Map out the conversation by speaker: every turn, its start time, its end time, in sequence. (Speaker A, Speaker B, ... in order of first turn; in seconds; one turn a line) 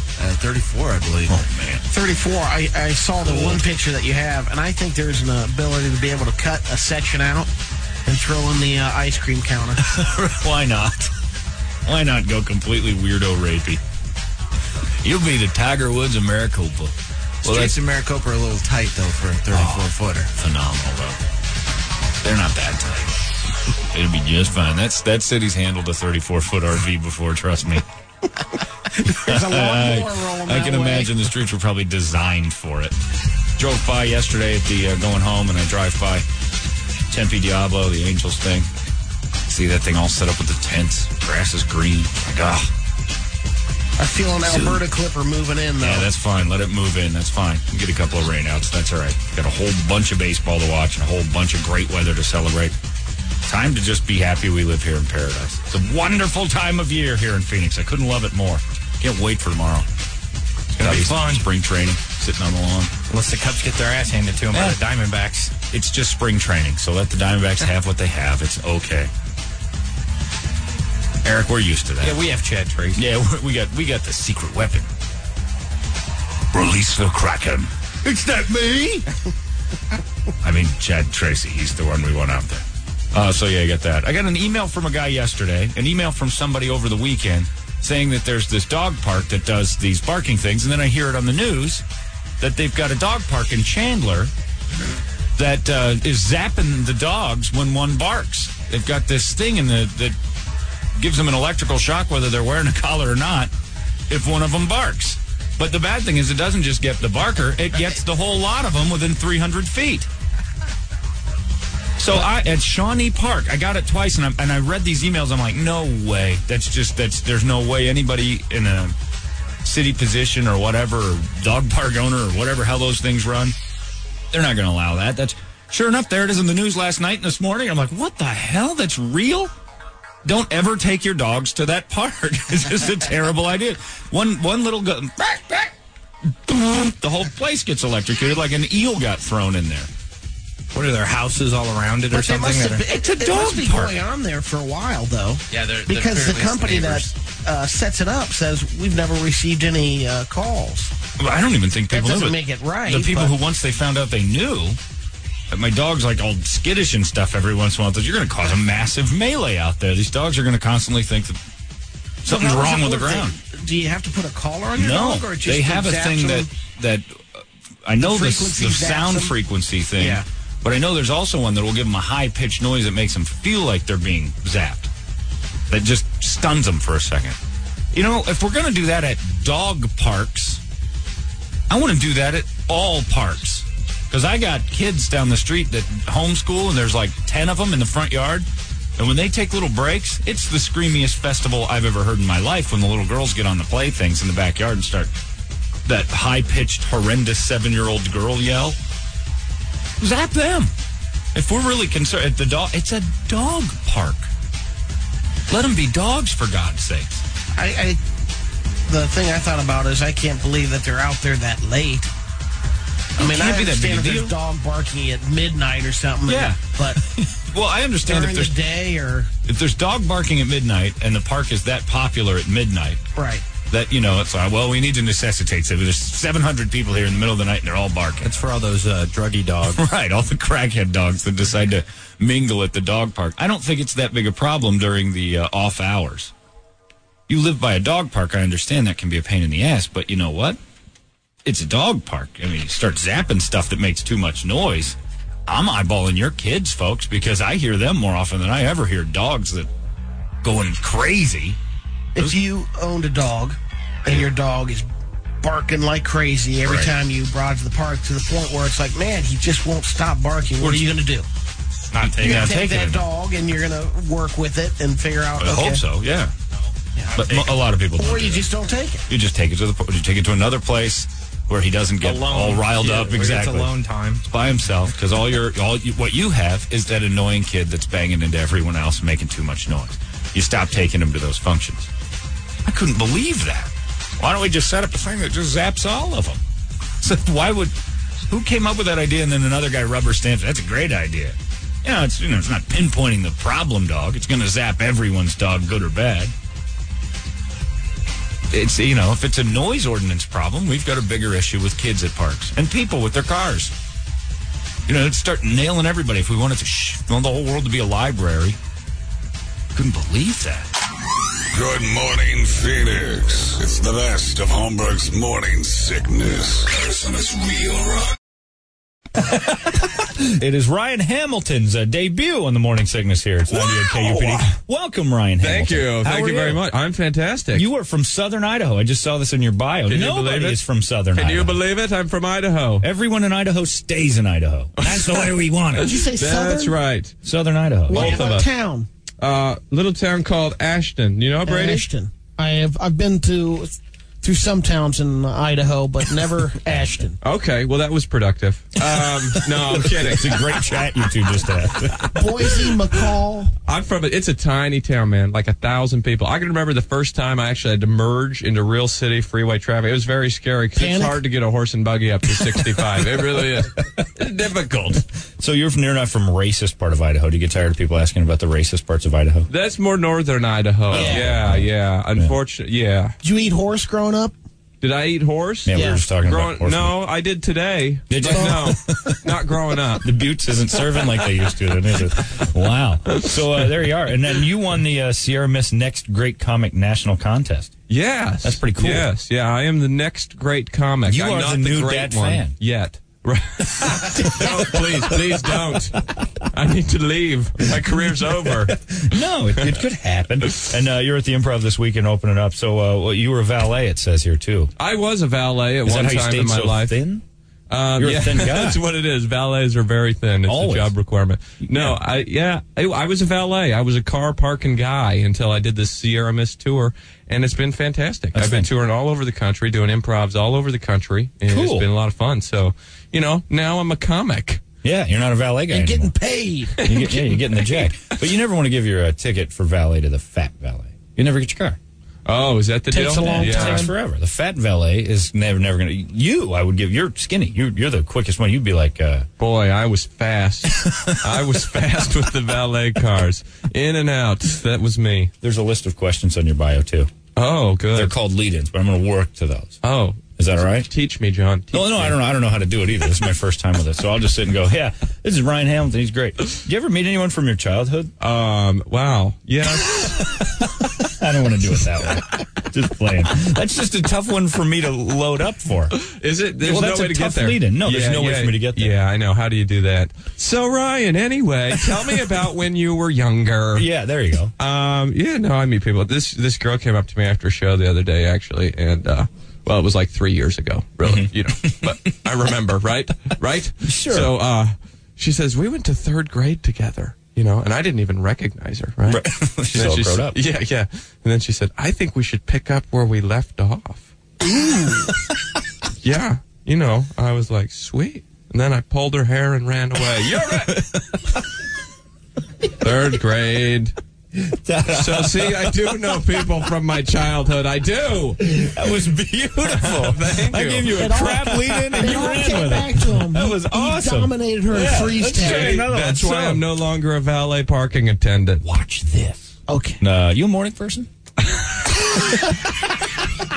Speaker A: 0.2-1.4
Speaker B: 1.3-1.9
Speaker C: 1.9-7.5
Speaker B: 3.2-3.6
Speaker C: 8.1-9.8
Speaker B: 9.8-11.1
Speaker B: 11.8-13.8
Speaker B: 15.0-17.8
Speaker A: 17.4-20.3
Speaker B: 19.5-21.2
Speaker B: 22.2-23.1
Speaker B: 23.9-27.8
Speaker C: 29.0-31.3
Speaker B: 29.2-33.0
Speaker B: 33.6-36.3
Speaker B: 37.1-38.7
Speaker B: 39.5-42.7
Speaker C: 44.0-46.1
Speaker B: 44.5-44.8
Speaker B: 45.8-52.8
Speaker B: 53.5-59.9
Speaker B: 60.7-62.9
Speaker D: 60.8-61.5
Speaker D: 63.1-65.5
Speaker B: 64.5-64.8
Speaker B: 65.7-69.1
Speaker B: 71.2-72.2
Speaker D: 72.0-73.0
Speaker B: 73.0-74.9
Speaker B: 76.5-79.0
Speaker B: 80.4-91.8
Speaker B: 92.4-94.3
Speaker B: 95.4-100.2
Speaker B: 101.0-103.5
Speaker B: 104.1-110.1
Speaker B: 112.0-119.0
Speaker B: 119.6-123.6
Speaker B: 124.3-129.5
Speaker B: 130.2-135.7
Speaker B: 136.5-139.9
Speaker D: 140.7-142.8
Speaker C: 142.1-150.9
Speaker B: 142.8-144.0
Speaker A: 145.5-147.0
Speaker B: 151.2-154.8
Speaker C: 151.9-153.4
Speaker B: 155.5-161.4
Speaker B: 162.2-163.4
Speaker C: 162.3-166.5
Speaker B: 164.8-174.9
Speaker C: 168.0-169.4
Speaker C: 170.0-170.2
Speaker B: 175.7-177.4
Speaker B: 177.9-180.6
Speaker B: 181.7-195.1
Speaker B: 195.9-198.8
Speaker B: 200.0-200.7
Speaker B: 201.3-204.3
Speaker B: 205.5-207.2
Speaker C: 207.6-208.0
Speaker C: 208.9-212.1
Speaker B: 213.2-214.3
Speaker C: 213.2-217.0
Speaker B: 216.3-218.6
Speaker C: 218.1-219.3
Speaker B: 219.5-223.0
Speaker C: 223.2-223.4
Speaker B: 223.7-228.5
Speaker D: 228.2-229.8
Speaker B: 229.7-236.3
Speaker B: 237.3-240.6
Speaker B: 241.4-249.7
Speaker B: 250.4-251.6
Speaker C: 252.2-254.9
Speaker C: 255.4-261.3
Speaker B: 256.6-256.9
Speaker B: 260.6-260.9
Speaker D: 261.9-262.6
Speaker B: 262.0-263.1
Speaker C: 262.2-265.8
Speaker B: 265.4-266.3
Speaker B: 267.1-268.5
Speaker C: 267.9-269.0
Speaker B: 269.1-281.9
Speaker D: 272.0-274.2
Speaker B: 282.6-286.4
Speaker B: 287.0-287.8
Speaker B: 288.3-296.4
Speaker B: 298.5-303.7
Speaker B: 304.9-308.6
Speaker B: 309.7-310.7
Speaker E: 311.5-318.1
Speaker B: 319.3-326.6
Speaker F: 323.5-324.4
Speaker F: 325.4-327.7
Speaker B: 327.5-331.6
Speaker F: 329.9-332.9
Speaker B: 332.8-335.9
Speaker F: 334.8-337.2
Speaker C: 335.8-336.8
Speaker B: 337.2-338.3
Speaker F: 337.9-338.5
Speaker C: 337.9-338.9
Speaker F: 339.2-341.9
Speaker C: 341.4-347.2
Speaker F: 347.2-350.5
Speaker B: 349.5-352.1
Speaker C: 352.1-353.5
Speaker F: 353.7-365.1
Speaker C: 360.8-361.2
Speaker B: 365.4-369.5
Speaker F: 369.5-373.1
Speaker B: 370.9-372.3
Speaker C: 370.9-371.3
Speaker C: 373.2-374.4
Speaker F: 374.8-380.1
Speaker B: 375.6-377.0
Speaker C: 375.7-376.0
Speaker B: 378.1-379.3
Speaker C: 378.3-378.6
Speaker B: 380.0-387.8
Speaker F: 380.7-382.1
Speaker F: 383.1-383.8
Speaker F: 387.9-398.8
Speaker B: 388.4-389.1
Speaker B: 391.1-392.6
Speaker B: 394.1-395.6
Speaker B: 398.5-404.7
Speaker F: 404.8-407.0
Speaker B: 405.9-407.2
Speaker F: 407.7-424.6
Speaker B: 408.0-408.8
Speaker B: 410.4-410.9
Speaker B: 411.6-412.0
Speaker B: 418.3-418.7
Speaker B: 421.5-421.9
Speaker B: 424.8-426.1
Speaker C: 425.7-426.9
Speaker F: 426.8-428.2
Speaker B: 426.8-431.8
Speaker F: 432.3-433.9
Speaker C: 432.9-433.9
Speaker B: 433.2-439.3
Speaker F: 439.4-445.3
Speaker B: 445.4-447.1
Speaker F: 447.4-448.1
Speaker B: 447.9-449.8
Speaker F: 449.8-452.2
Speaker B: 450.4-450.9
Speaker B: 451.7-458.1
Speaker F: 458.2-460.2
Speaker B: 460.0-466.0
Speaker F: 466.0-473.9
Speaker B: 466.6-468.9
Speaker B: 473.7-474.5
Speaker F: 474.6-494.1
Speaker B: 481.0-481.9
Speaker B: 483.8-484.3
Speaker B: 489.1-490.4
Speaker F: 496.0-500.8
Speaker B: 500.2-501.2
Speaker F: 502.8-503.9
Speaker B: 504.6-506.1
Speaker F: 504.9-508.7
Speaker B: 508.4-516.6
Speaker F: 509.6-512.9
Speaker C: 510.9-515.9
Speaker F: 515.1-518.6
Speaker B: 518.6-519.5
Speaker C: 519.7-520.0
Speaker B: 520.0-521.1